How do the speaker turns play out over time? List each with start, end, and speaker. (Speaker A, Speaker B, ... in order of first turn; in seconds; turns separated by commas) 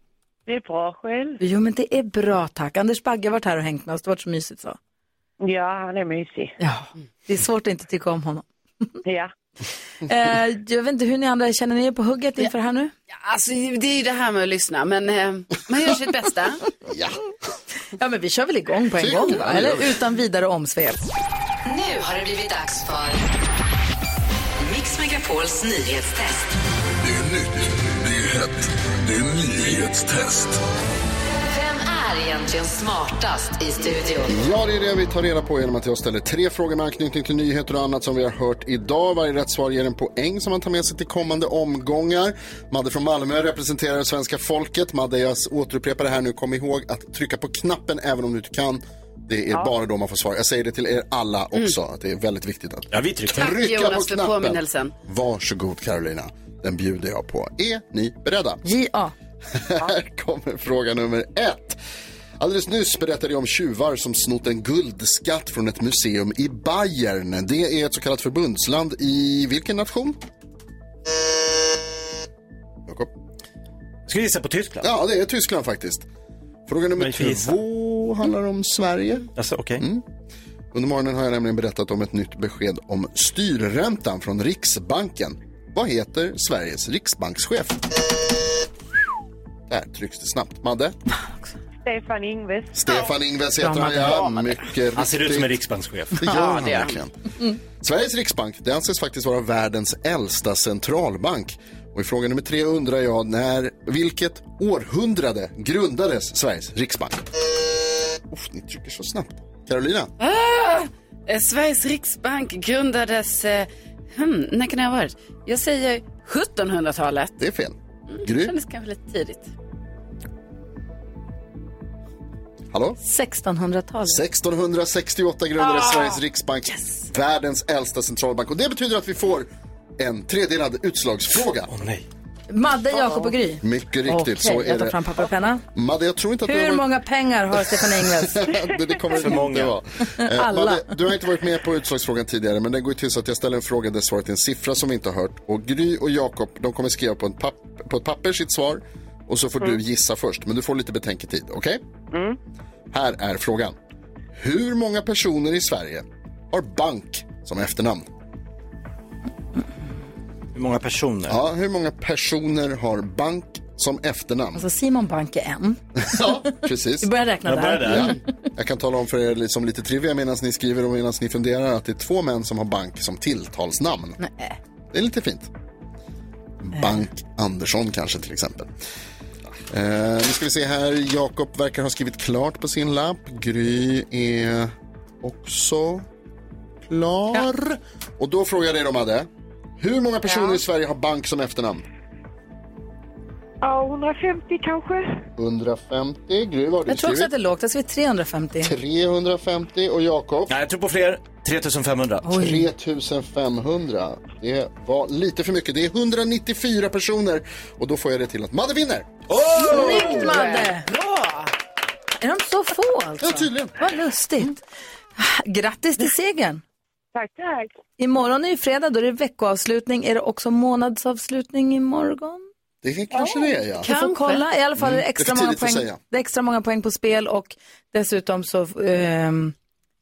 Speaker A: 0.5-1.4, Speaker B: 1.4-4.8, Speaker A: 5.4-6.5, Speaker B: 6.6-8.4, Speaker A: 9.1-9.3, Speaker B: 10.1-12.9, Speaker C: 13.1-16.6, Speaker D: 16.9-17.2, Speaker B: 18.0-21.0, Speaker D: 19.0-19.9, Speaker E: 21.6-23.3, Speaker E: 24.6-26.5, Speaker F: 27.1-30.5, Speaker E: 31.4-34.3, Speaker D: 34.3-58.6, Speaker G: 52.9-53.5, Speaker C: 53.4-54.9, Speaker B: 58.6-59.1, Speaker D: 59.5-61.8, Speaker D: 62.4-70.2, Speaker G: 74.1-74.9, Speaker D: 74.8-76.1, Speaker D: 76.7-80.0, Speaker G: 77.0-77.6, Speaker G: 79.3-79.8, Speaker D: 80.7-87.9, Speaker D: 89.7-91.0, Speaker A: 91.8-92.8, Speaker D: 92.7-95.6, Speaker B: 93.6-93.9, Speaker C: 94.0-94.6, Speaker G: 94.9-96.3, Speaker D: 96.1-97.1, Speaker C: 96.3-97.0, Speaker D: 97.8-107.3, Speaker D: 108.3-110.1, Speaker C: 110.2-117.3, Speaker D: 117.4-118.5, Speaker C: 118.1-119.5, Speaker D: 122.7-123.0, Speaker B: 123.0-124.2, Speaker D: 124.1-131.7, Speaker G: 131.6-132.0, Speaker B: 132.5-135.6, Speaker D: 133.6-135.0, Speaker D: 135.7-136.9, Speaker B: 136.5-138.3, Speaker D: 137.6-151.8, Speaker G: 139.2-139.8, Speaker B: 140.2-140.8, Speaker D: 152.9-153.7, Speaker D: 154.3-158.1, Speaker G: 160.5-161.4, Speaker D: 161.3-164.6, Speaker B: 164.6-165.8, Speaker D: 166.0-167.1, Speaker B: 167.0-168.2, Speaker G: 167.4-168.1, Speaker D: 167.9-174.2, Speaker B: 174.2-174.5, Speaker D: 174.9-175.5, Speaker D: 176.6-178.7, Speaker D: 179.7-186.1, Speaker D: 186.8-189.3, Speaker D: 189.8-191.8, Speaker H: 193.6-195.2, Speaker D: 195.4-197.3, Speaker B: 196.9-198.7, Speaker D: 198.6-200.5, Speaker G: 200.5-202.4, Speaker B: 202.3-202.6, Speaker D: 202.3-209.4, Speaker G: 209.3-210.0, Speaker B: 209.6-210.8, Speaker C: 209.7-211.5, Speaker B: 212.2-214.6, Speaker D: 213.2-213.8, Speaker B: 215.2-216.6, Speaker H: 217.1-217.7, Speaker B: 218.0-222.4, Speaker D: 222.8-223.9, Speaker C: 223.8-224.4, Speaker B: 223.9-229.5, Speaker D: 224.8-226.0